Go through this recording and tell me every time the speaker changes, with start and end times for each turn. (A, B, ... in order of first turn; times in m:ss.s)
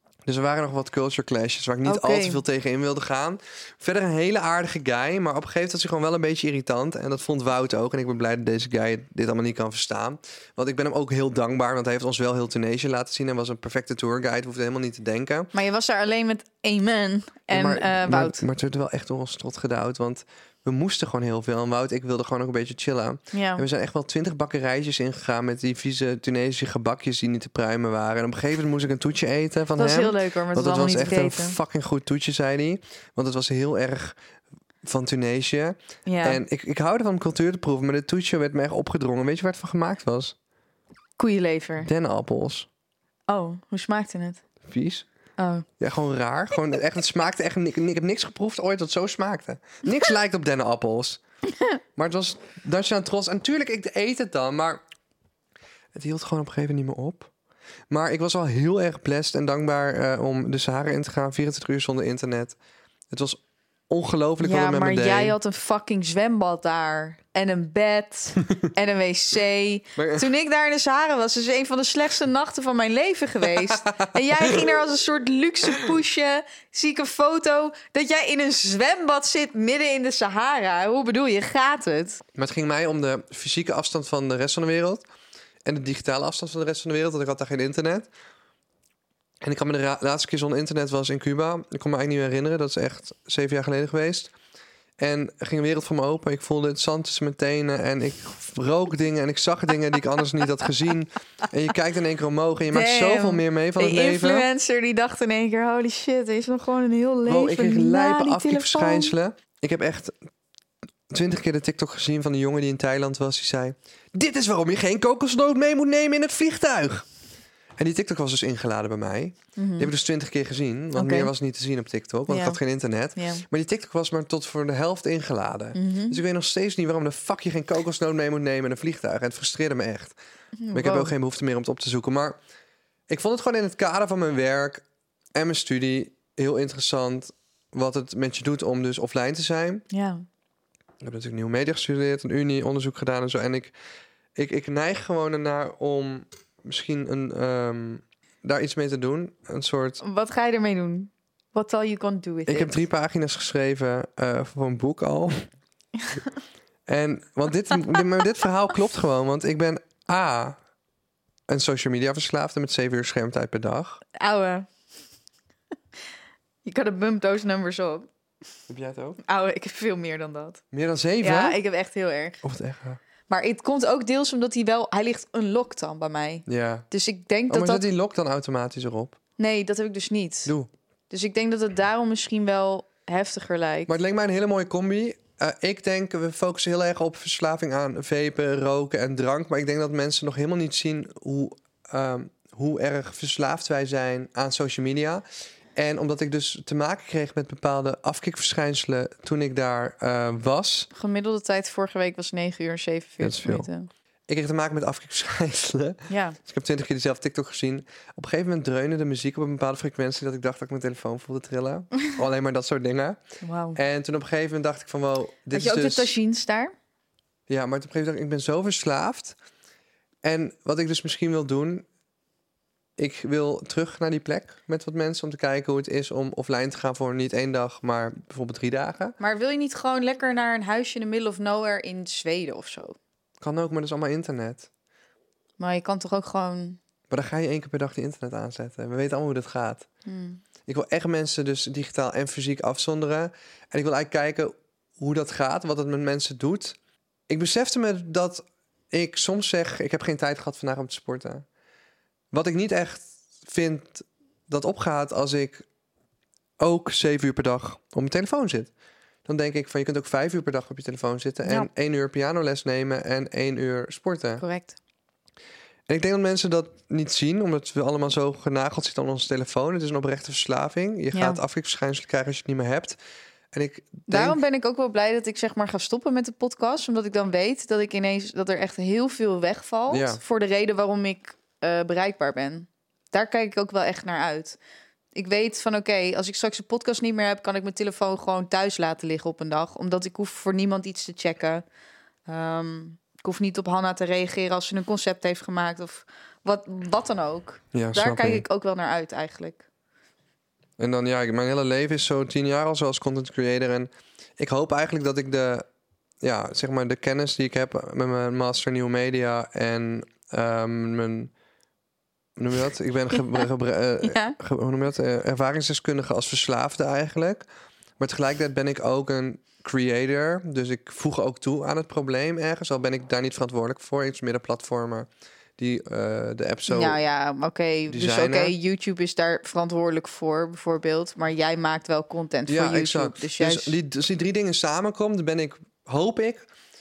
0:00.2-0:15.5 A
0:01.8-0:02.4 B
0:15.5-0:18.4 B
0:17.5-0:34.2 A
0:23.3-0:23.6 B
0:29.8-0:31.6 B
0:34.8-0:40.3 A
0:36.0-0:36.4 B
0:41.2-0:41.9 B
0:41.8-0:42.7 A
0:43.3-0:44.4 B
0:44.6-0:45.0 A
0:45.4-0:45.6 B
0:45.8-0:51.2 A
0:52.0-0:54.8 A
0:55.9-0:57.3 A
0:57.9-1:02.6 A
1:03.1-1:05.4 A
1:04.4-1:22.2 B
1:10.0-1:10.3 A
1:13.4-1:14.6 A
1:22.3-1:25.0 A
1:25.6-1:28.1 A
1:29.4-1:34.3 A
1:35.0-1:44.5 A
1:42.7-1:49.1 B
1:47.3-1:50.2 A
1:51.1-1:57.0 A
1:57.8-2:10.2 A
1:59.6-1:59.9 B
2:00.9-2:01.3 B
2:02.3-2:02.6 B
2:03.2-2:03.4 B
2:05.7-2:06.2 B
2:10.6-2:11.1 B
2:10.7-2:12.4 A
2:13.1-2:14.8 A
2:15.3-2:19.8 A
2:19.9-2:20.2 B
2:21.0-2:23.7 A
2:24.4-2:30.0 A
2:30.0-2:32.8 B
2:32.5-2:35.5 A
2:36.9-2:40.6 A
2:41.5-2:44.0 A
2:44.2-2:44.7 B
2:46.6-2:48.1 B
2:48.7-2:49.2 A
2:49.2-2:50.6 B
2:50.7-2:51.6 A
2:51.2-2:52.4 B
2:52.4-2:53.0 A
2:53.3-2:57.8 B
2:56.5-2:56.8 A
2:57.5-2:59.2 A
2:59.4-3:00.5 B
3:00.4-3:00.7 A
3:01.1-3:03.9 B
3:03.9-3:20.9 A
3:20.9-3:23.9 B
3:23.2-3:23.7 A
3:24.3-3:33.2 A
3:26.1-3:26.4 B
3:33.4-3:33.8 B
3:33.7-3:36.1 A
3:35.5-3:36.7 B
3:37.5-3:39.4 A
3:40.2-3:41.8 A
3:43.0-3:49.2 A
3:49.2-3:53.0 B
3:53.4-3:54.7 A
3:55.6-3:56.8 B
3:57.1-3:59.9 A
4:00.0-4:00.4 B
4:00.7-4:06.8 A
4:07.3-4:11.4 A
4:12.3-4:15.6 A
4:16.6-4:18.7 A
4:19.2-4:24.4 A
4:24.4-4:24.8 B
4:25.9-4:33.0 A
4:31.1-4:31.4 B
4:33.5-4:34.4 A
4:34.1-4:44.6 B
4:39.9-4:40.2 A
4:45.1-4:51.6 B
4:52.3-4:59.6 B
4:57.7-4:58.4 A
5:00.8-5:05.6 A
5:06.2-5:11.3 A
5:12.4-5:17.4 A
5:14.0-5:14.4 B
5:18.0-5:27.0 A
5:26.7-5:33.8 B
5:27.9-5:28.5 A
5:32.5-5:36.5 A